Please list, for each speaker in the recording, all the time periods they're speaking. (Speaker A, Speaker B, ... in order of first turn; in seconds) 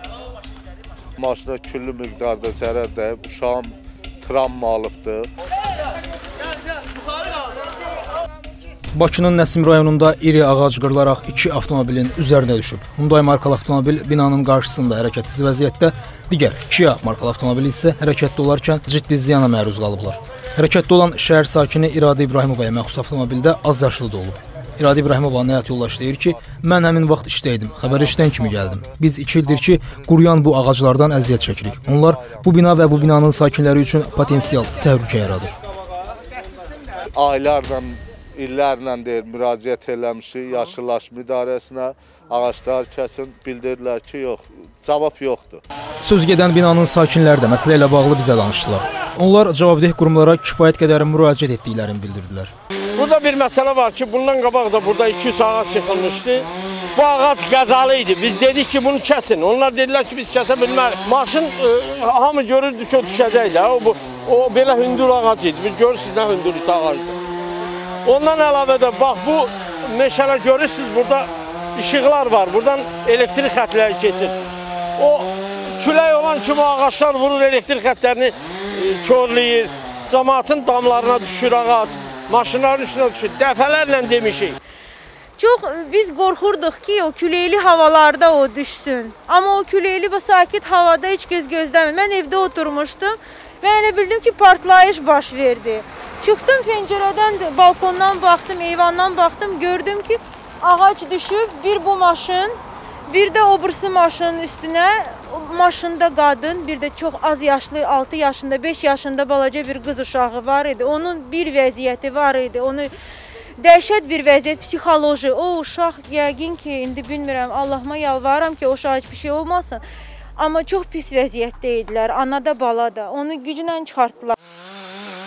Speaker A: 1.2-5.3, 28.0-28.7, 31.4-32.4, 37.1-45.6
Speaker B: 8.9-35.5, 46.0-52.5
Speaker C: 53.0-67.2, 68.0-74.4, 75.0-84.6
Speaker D: 85.4-112.9, 113.6-119.8, 120.4-124.3